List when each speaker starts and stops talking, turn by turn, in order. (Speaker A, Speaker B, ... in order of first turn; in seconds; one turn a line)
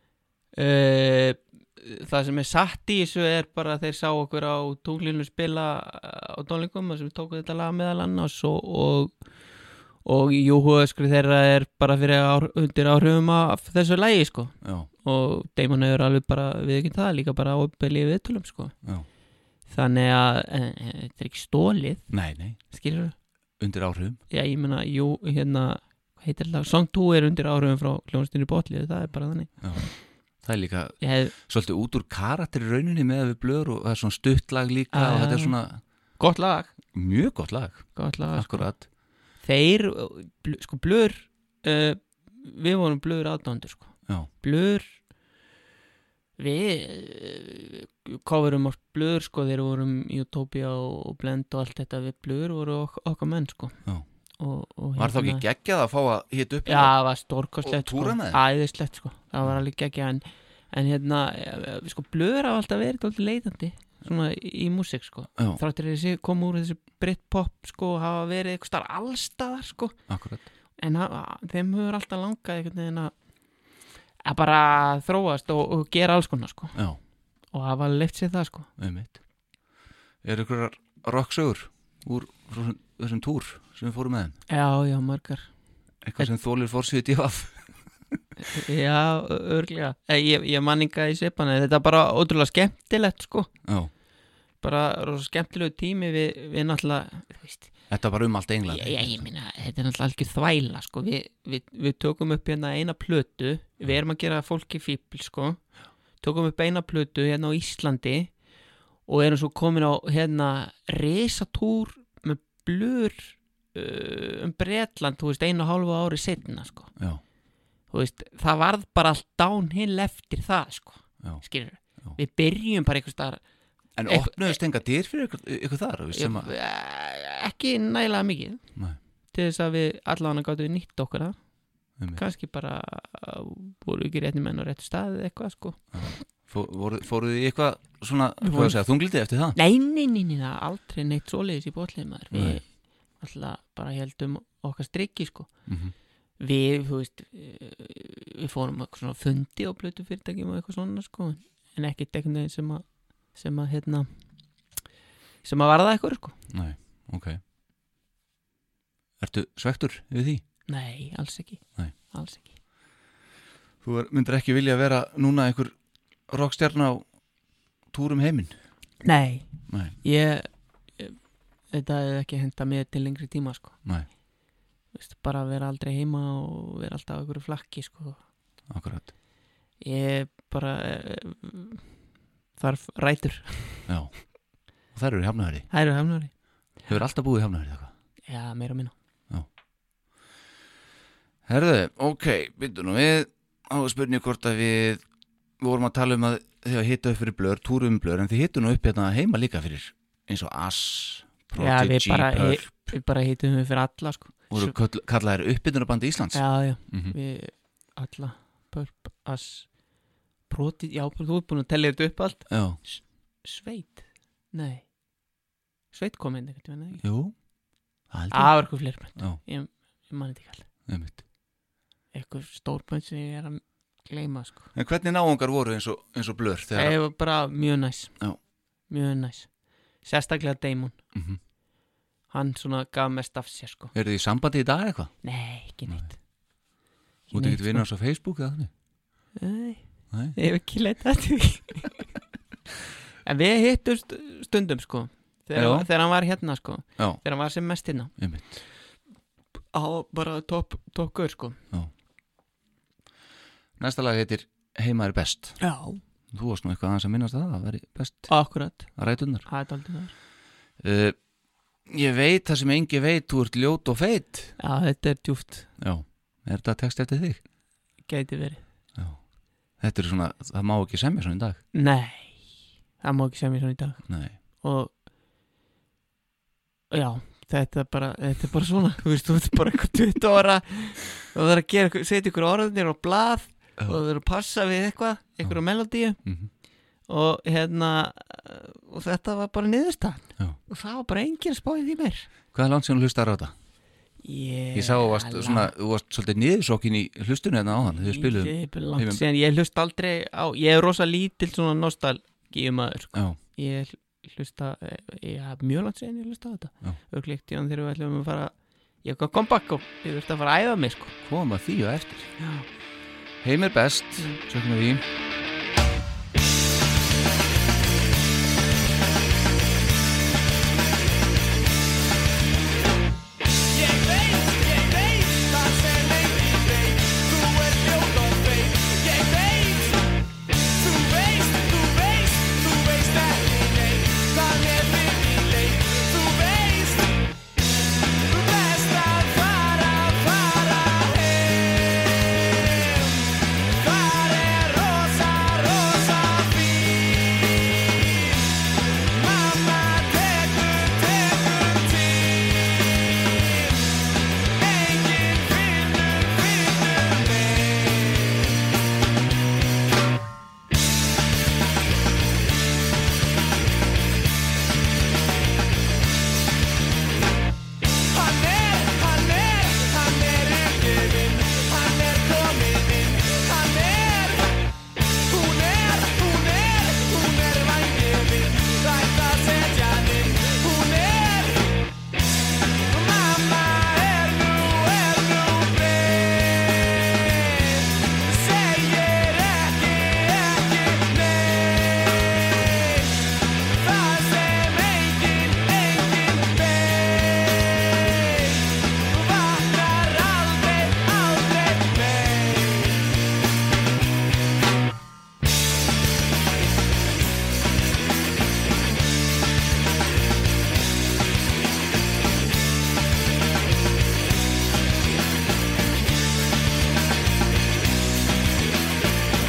Speaker A: 0.6-9.2
Speaker A: 10.0-18.7
Speaker B: 14.6-14.9
Speaker A: 19.7-23.1
Speaker B: 22.1-22.6
Speaker B: 23.6-24.2
Speaker A: 24.3-29.7
Speaker B: 29.6-29.9
Speaker B: 30.4-35.8
Speaker A: 31.0-31.3
Speaker A: 34.9-35.6
Speaker A: 36.2-36.7
Speaker B: 36.9-38.9
Speaker A: 38.0-38.7
Speaker A: 39.4-44.9
Speaker A: 46.4-53.8
Speaker A: 54.4-55.5
Speaker B: 55.0-56.9
Speaker A: 56.7-70.0
Speaker B: 57.6-58.4
Speaker B: 70.1-70.5
Speaker A: 70.8-73.1
Speaker A: 74.2-76.8
Speaker A: 77.5-78.7
Speaker B: 78.8-79.2
Speaker B: 80.2-84.4
Speaker A: 84.5-85.5
Speaker B: 86.0-87.7
Speaker A: 88.4-93.5
Speaker B: 93.7-93.9
Speaker A: 94.6-97.7
Speaker B: 97.9-99.3
Speaker A: 98.7-105.6
Speaker A: 106.2-108.3
Speaker A: 109.1-116.9
Speaker A: 117.9-123.4
Speaker B: 124.0-126.5
Speaker A: 124.1-124.6
Speaker A: 126.1-128.6
Speaker A: 129.3-131.4
Speaker A: 132.2-135.8
Speaker B: 135.9-139.6
Speaker A: 138.4-138.8
Speaker A: 139.6-142.7
Speaker B: 142.3-142.6
Speaker A: 143.2-145.5
Speaker B: 145.7-145.9
Speaker A: 146.4-154.1
Speaker A: 155.4-156.4
Speaker B: 156.5-157.4
Speaker B: 159.2-160.4
Speaker A: 160.7-162.6
Speaker B: 163.8-165.8
Speaker B: 166.3-167.1
Speaker B: 167.9-168.6
Speaker A: 169.0-171.2
Speaker B: 169.7-170.0
Speaker A: 171.7-173.8
Speaker A: 174.9-178.2
Speaker B: 178.7-179.1
Speaker A: 179.8-181.9
Speaker A: 182.6-183.9
Speaker B: 183.9-184.2
Speaker B: 184.9-185.7
Speaker A: 185.7-186.3
Speaker B: 186.9-187.9
Speaker A: 188.3-188.9
Speaker B: 191.5-195.0
Speaker B: 195.6-202.7
Speaker A: 201.6-204.8
Speaker B: 204.5-207.2
Speaker A: 206.3-209.8
Speaker A: 210.5-214.9
Speaker B: 212.5-212.8
Speaker A: 215.9-217.0
Speaker B: 217.0-217.3
Speaker B: 218.1-219.4
Speaker A: 218.3-220.7
Speaker B: 220.9-221.2
Speaker A: 222.1-224.7
Speaker B: 224.7-227.0
Speaker A: 226.8-228.2
Speaker A: 228.9-229.5
Speaker A: 230.0-231.0
Speaker B: 231.2-231.4
Speaker A: 232.3-233.9
Speaker B: 233.9-235.1
Speaker A: 235.2-236.2
Speaker A: 237.3-237.8
Speaker B: 237.3-238.7
Speaker A: 239.3-242.1
Speaker B: 240.1-240.4
Speaker A: 243.2-248.1
Speaker B: 245.6-245.9
Speaker B: 248.2-248.6
Speaker A: 249.7-251.6
Speaker B: 253.8-255.6
Speaker A: 255.6-256.0
Speaker B: 256.3-259.5
Speaker A: 258.3-258.9
Speaker A: 259.5-260.1
Speaker B: 260.8-261.2
Speaker B: 261.9-264.6
Speaker A: 264.6-265.7
Speaker B: 265.8-267.4
Speaker A: 268.1-268.6
Speaker B: 269.0-269.2
Speaker B: 269.8-271.6
Speaker A: 271.7-272.5
Speaker A: 273.0-274.9
Speaker B: 274.1-274.4
Speaker A: 276.9-286.2
Speaker B: 286.2-286.5
Speaker A: 287.1-292.3
Speaker B: 292.5-293.5
Speaker A: 294.2-295.7
Speaker B: 294.7-299.2
Speaker A: 297.9-311.1
Speaker B: 311.2-312.3
Speaker A: 312.4-312.7
Speaker B: 313.4-315.0
Speaker C: 323.7-337.2
Speaker C: 338.3-353.9
Speaker C: 354.6-358.5
Speaker C: 368.1-374.6
Speaker C: 375.3-381.8
Speaker C: 382.9-403.1